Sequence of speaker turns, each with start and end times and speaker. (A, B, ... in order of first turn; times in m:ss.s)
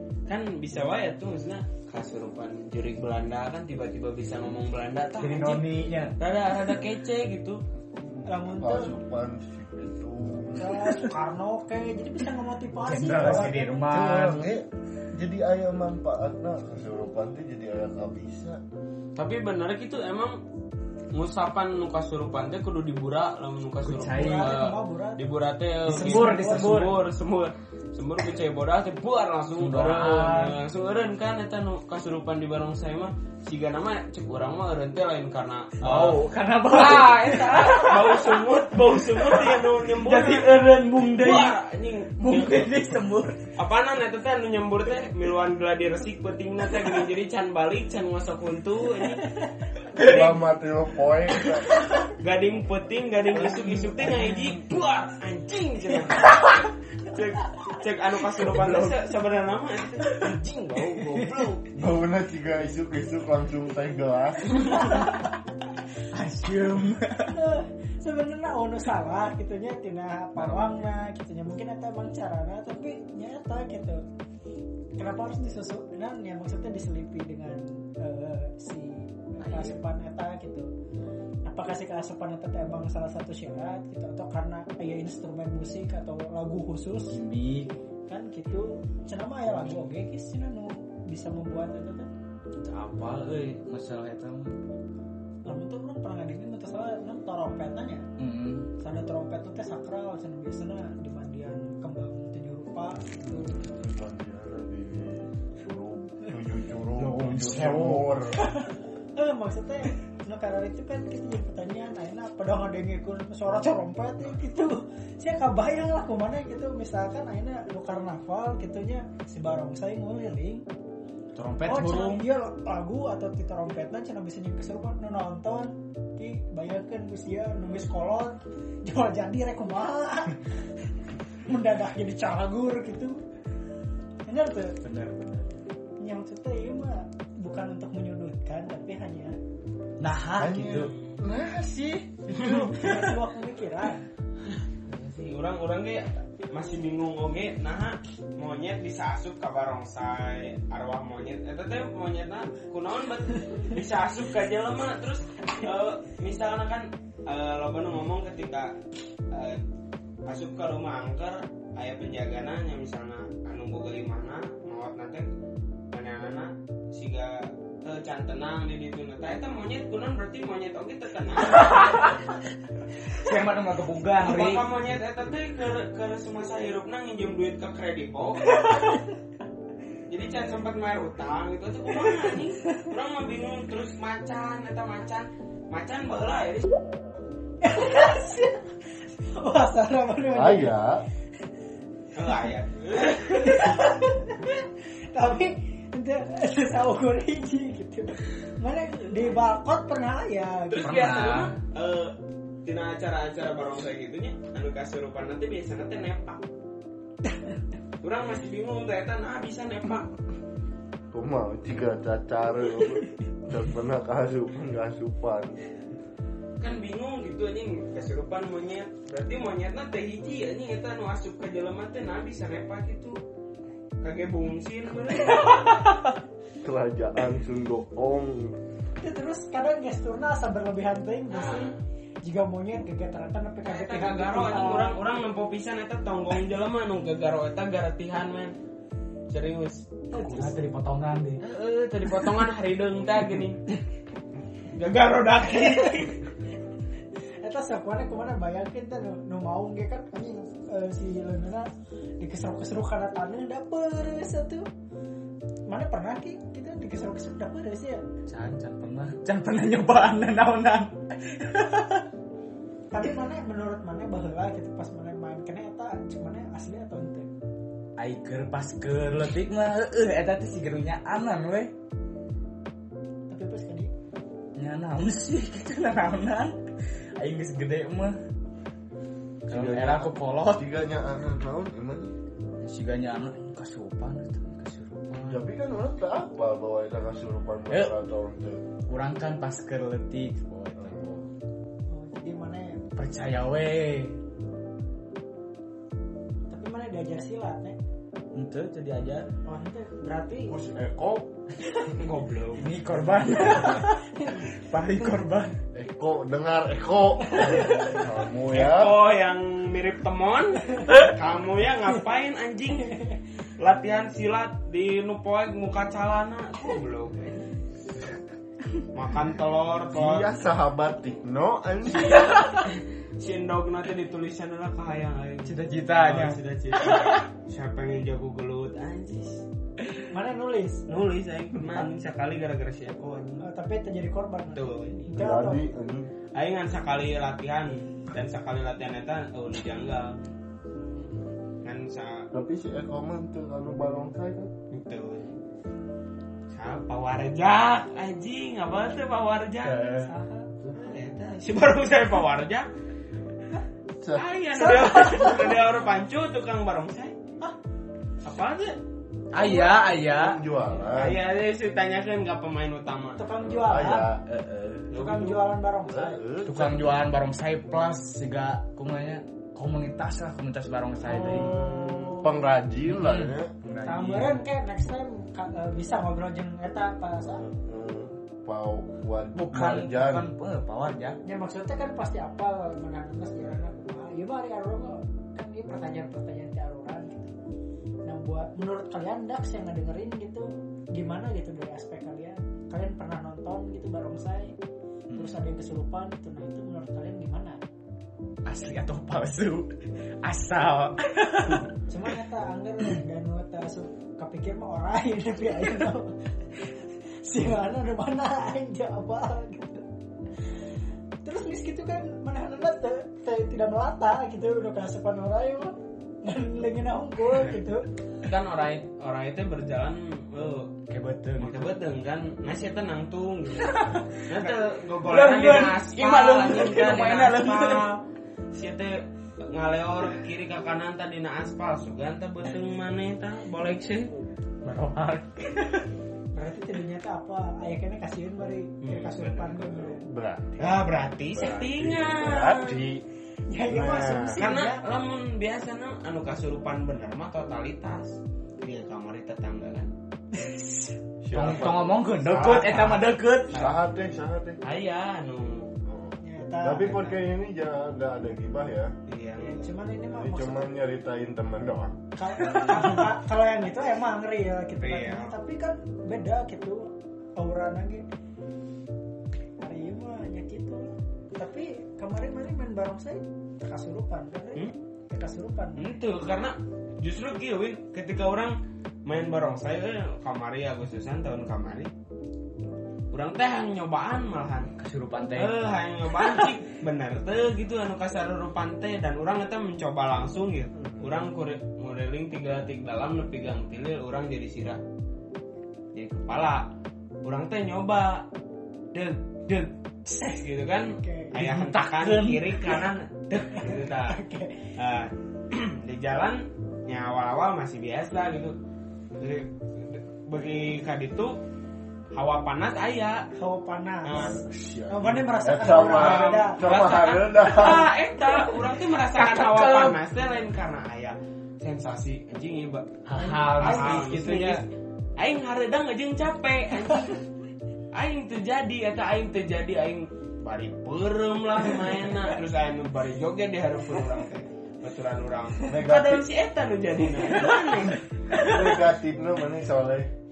0:00.3-0:05.6 A
0:05.2-0:06.1 B
0:06.2-0:07.6 A
0:08.0-0:11.1 C
0:08.2-0:08.9 D
0:10.6-0:13.7 D
0:12.8-0:14.4 B
0:13.9-0:18.6 C
0:19.2-0:20.4 A
0:21.1-0:42.7 A
0:23.8-0:24.6 B
0:24.1-0:25.2 D
0:25.9-0:27.0 B
0:25.9-0:26.9 D
0:29.6-0:30.6 B
0:35.8-0:41.6 B
0:42.2-0:43.5 B
0:43.6-0:49.3 A
0:50.0-0:50.4 A
0:50.0-0:51.9 C
0:52.1-0:56.5 A
0:53.6-0:54.3 B
0:57.0-1:01.7 A
0:58.4-0:59.0 B
1:01.7-1:04.9 C
1:04.9-1:05.2 B
1:06.1-1:07.3 B
1:07.3-1:14.0 D
1:10.4-1:10.8 B
1:15.0-1:20.7 D
1:19.4-1:19.8 B
1:21.4-1:27.2 D
1:27.1-1:27.8 B
1:28.1-1:32.1 D
1:32.6-1:34.6 B
1:35.5-1:38.0 D
1:38.2-1:38.7 B
1:38.8-1:43.6 D
1:43.3-1:48.5 C
1:47.0-1:48.1 B
1:48.5-2:00.6 D
2:01.4-2:02.3 B
2:01.6-2:10.4 D
2:11.4-2:13.2 D
2:14.3-2:14.8 D
2:14.8-2:15.5 B
2:16.0-2:19.4 D
2:20.0-2:20.9 B
2:20.4-2:22.7 C
2:20.9-2:21.2 A
2:22.4-2:22.7 A
2:22.4-2:24.0 D
2:24.4-2:38.8 A
2:39.3-2:39.6 A
2:40.3-2:45.3 A
2:45.9-2:52.1 A
2:51.5-2:52.1 B
2:53.1-2:54.7 B
2:54.2-2:58.6 A
3:00.1-3:06.7 A
3:07.6-3:10.7 D
3:10.3-3:11.0 C
3:12.2-3:13.8 A
3:13.2-3:20.9 D
3:20.7-3:26.4 A
3:20.8-3:21.6 B
3:28.0-3:30.1 A
3:31.1-3:35.6 C
3:36.6-3:43.2 A
3:44.0-3:45.7 A
3:45.4-3:46.1 B
3:46.6-3:48.6 C
3:49.0-3:55.0 D
3:51.3-3:51.8 A
3:53.6-3:58.5 A
3:59.3-4:00.1 A
4:00.1-4:00.6 D
4:00.2-4:01.4 B
4:01.4-4:03.6 A
4:04.7-4:06.3 A
4:07.4-4:11.7 D
4:12.2-4:14.7 D
4:15.7-4:18.0 D
4:18.3-4:22.1 B
4:22.9-4:27.3 D
4:28.0-4:31.7 B
4:33.3-4:33.9 D
4:34.6-4:36.6 B
4:37.2-4:38.2 B
4:39.5-4:42.1 C
4:39.5-4:40.6 B
4:42.6-4:45.4 B
4:45.3-4:48.6 C
4:48.9-4:51.3 B
4:50.8-4:51.2 C
4:51.9-4:52.8 D
4:53.0-4:54.2 B
4:56.5-4:57.8 D
4:58.3-4:59.3 B
4:59.5-5:00.6 D
5:00.5-5:01.3 C
5:02.0-5:02.7 A
5:02.6-5:05.6 B
5:03.7-5:04.4 D
5:05.7-5:09.0 C
5:07.4-5:07.9 D
5:08.5-5:13.0 A
5:13.6-5:17.5 A
5:18.9-5:20.3 A
5:19.9-5:22.4 C
5:21.8-5:29.4 A
5:25.4-5:27.2 B
5:30.1-5:30.8 D
5:30.9-5:33.5 A
5:33.4-5:35.6 D
5:34.5-5:35.1 A
5:35.2-5:36.1 C
5:36.4-5:40.3 A
5:40.8-5:41.1 D
5:41.6-5:42.3 A
5:42.3-5:44.5 C
5:44.7-5:45.3 A
5:46.5-5:49.8 A
5:49.6-5:50.1 B
5:50.0-5:50.5 D
5:50.6-5:50.9 C
5:50.8-5:52.7 A
5:54.0-5:55.5 C
5:54.2-5:57.2 A
5:58.2-5:58.8 A
5:59.3-6:00.4 B
5:59.5-6:01.2 C
6:00.9-6:03.2 A
6:03.2-6:04.1 D
6:03.4-6:04.2 C
6:04.3-6:04.9 B
6:04.9-6:05.4 A
6:04.9-6:06.2 D
6:05.9-6:07.1 C
6:06.4-6:11.6 B
6:11.1-6:12.3 D
6:11.2-6:13.5 C
6:12.9-6:14.4 B
6:13.8-6:17.5 D
6:17.4-6:20.3 C
6:19.4-6:21.2 B
6:21.2-6:27.4 D
6:28.1-6:34.6 D
6:35.1-6:35.4 B
6:35.2-6:37.6 D
6:38.5-6:41.7 B
6:41.9-6:49.8 D
6:51.2-6:57.8 D
6:58.2-7:00.8 A
7:00.9-7:01.7 B
7:01.4-7:08.0 A
7:03.6-7:07.9 B
7:08.5-7:14.1 A
7:14.6-7:15.9 B
7:16.4-7:20.0 D
7:18.8-7:19.7 A
7:19.6-7:23.0 C
7:20.6-7:22.8 A
7:23.5-7:24.8 D
7:23.7-7:24.4 C
7:24.3-7:29.9 A
7:30.3-7:31.0 D
7:31.2-7:31.9 C
7:31.3-7:33.5 B
7:32.1-7:33.8 A
7:33.5-7:34.6 C
7:34.6-7:35.7 A
7:35.8-7:38.9 C
7:36.2-7:37.0 D
7:36.8-7:37.2 A
7:39.1-7:39.7 A
7:39.4-7:40.7 D
7:40.1-7:42.0 C
7:42.2-7:48.0 D
7:44.8-7:45.3 A
7:49.6-7:56.0 D
7:55.8-8:01.9 A
8:03.1-8:04.7 A
8:04.8-8:06.5 B
8:05.3-8:14.8 A
8:10.8-8:11.2 C
8:15.9-8:16.7 A
8:17.2-8:18.3 A
8:18.9-8:24.2 A
8:20.1-8:20.4 D
8:21.0-8:21.3 D
8:21.4-8:22.8 B
8:23.6-8:24.7 D
8:24.8-8:28.6 A
8:29.2-8:31.4 A
8:32.2-8:33.3 A
8:33.4-8:36.6 D
8:34.0-8:34.4 A
8:34.2-8:37.9 C
8:35.9-8:44.6 A
8:39.0-8:40.0 B
8:43.0-8:44.6 B
8:43.7-8:44.0 D
8:45.2-8:47.2 A
8:47.9-8:58.0 A
8:55.7-8:56.3 C
8:57.9-8:58.7 B
8:58.4-9:00.1 C